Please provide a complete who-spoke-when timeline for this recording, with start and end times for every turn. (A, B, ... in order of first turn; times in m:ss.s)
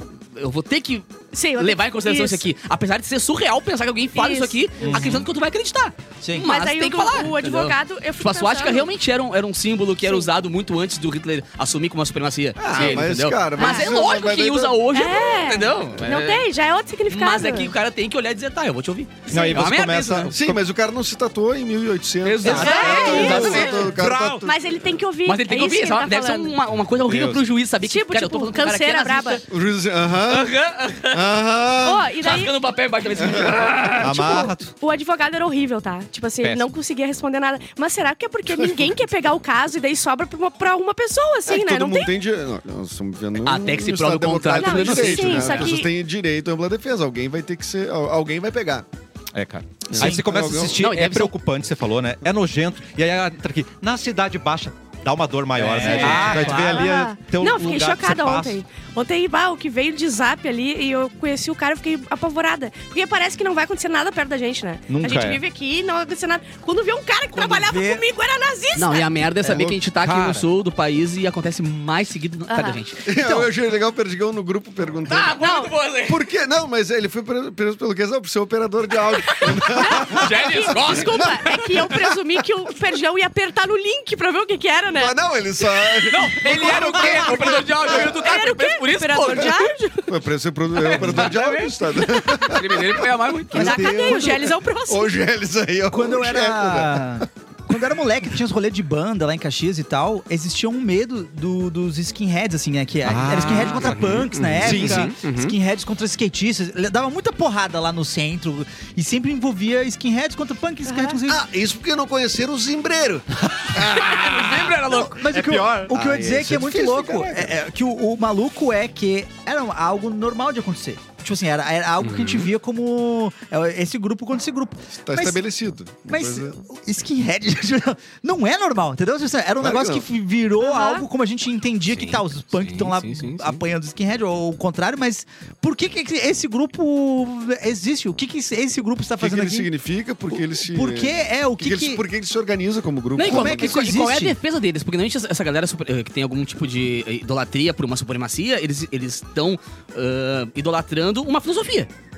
0:00.4-0:16.5 A
0:01.3-0:02.5 B
0:04.2-0:04.9 B
0:04.8-0:05.2 C
0:04.9-0:05.2 D
0:06.2-0:06.5 C
0:06.4-0:08.9 B
0:12.6-0:14.8 E
0:13.6-0:14.0 B
0:14.9-0:17.7 B
0:17.1-0:20.3 A
0:19.3-0:20.6 D
0:19.3-0:19.6 B
0:20.3-0:24.7 E
0:22.2-0:23.9 A
0:22.4-0:23.6 C
0:22.5-0:23.9 B
0:22.6-0:24.4 D
0:24.4-0:26.6 B
0:25.3-0:29.4 A
0:27.0-0:27.4 D
0:27.8-0:29.4 B
0:29.5-0:30.5 E
0:30.3-0:31.2 A
0:31.1-0:32.2 E
0:31.8-0:32.6 B
0:32.2-0:34.4 A
0:33.2-0:33.7 E
0:33.9-0:34.7 D
0:34.0-0:42.1 B
0:38.5-0:38.9 E
0:41.5-0:48.9 E
0:43.4-0:45.8 A
0:44.6-0:45.9 B
0:49.3-0:58.6 D
0:49.9-0:50.8 E
0:50.0-0:50.2 C
0:50.7-0:51.3 A
0:55.6-0:56.9 C
0:55.6-0:56.5 A
0:55.8-1:09.1 B
1:04.9-1:05.4 D
1:07.3-1:08.0 C
1:08.8-1:13.5 A
1:09.4-1:09.8 E
1:10.0-1:10.5 D
1:12.5-1:12.8 B
1:13.0-1:15.4 E
1:15.1-1:16.2 A
1:15.4-1:15.7 B
1:16.1-1:21.2 E
1:19.3-1:25.2 B
1:19.7-1:22.1 A
1:25.0-1:28.0 E
1:26.1-1:29.7 A
1:26.4-1:30.1 B
1:30.1-1:37.2 E
1:30.7-1:34.2 A
1:32.1-1:32.6 B
1:33.5-1:35.2 B
1:33.5-1:34.4 C
1:35.9-1:51.4 C
1:43.0-1:45.2 D
1:44.6-1:45.4 A
1:44.6-1:45.6 E
1:50.9-1:51.2 B
1:51.3-1:54.8 E
1:53.8-1:55.8 A
1:54.8-2:05.4 C
1:55.3-1:57.5 E
2:05.0-2:06.6 E
2:06.1-2:19.7 C
2:09.6-2:10.0 E
2:10.6-2:11.0 B
2:11.9-2:13.3 A
2:13.3-2:13.6 E
2:19.2-2:23.9 E
2:20.3-2:22.0 C
2:23.2-2:31.9 A
2:23.2-2:24.4 C